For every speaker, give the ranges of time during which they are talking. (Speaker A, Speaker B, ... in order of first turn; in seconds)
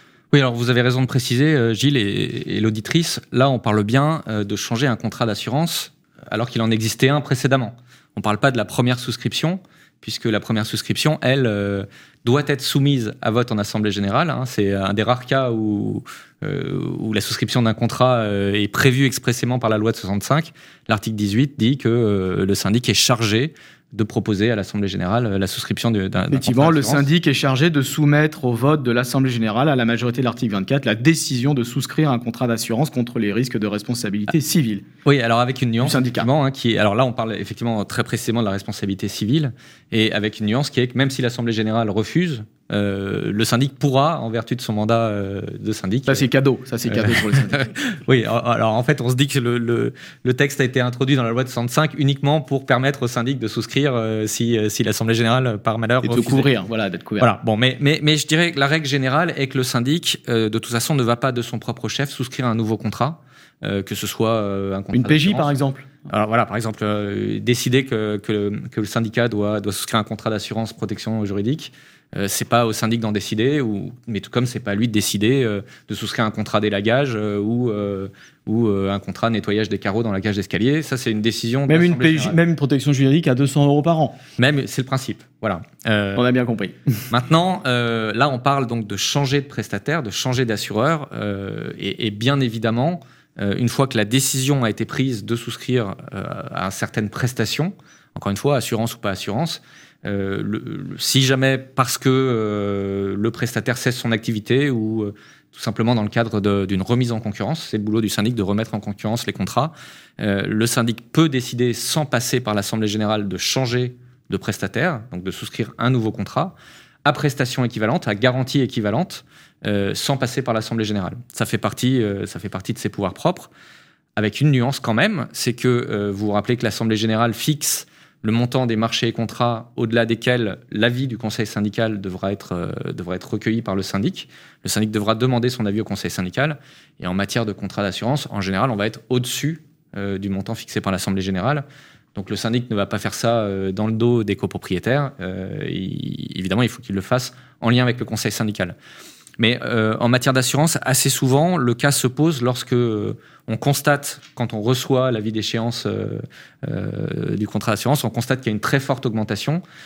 Speaker A: 0.3-27.1, 35.0-46.2, 47.0-56.5, 57.2-65.5, 66.1-82.4, 84.4-86.2, 87.1-123.5, 124.2-141.6, 142.1-148.8, 149.4-159.6
Speaker B: 26.3-34.8, 35.8-36.3, 46.0-47.6, 56.0-57.3, 64.9-65.9, 81.7-84.2, 86.1-87.0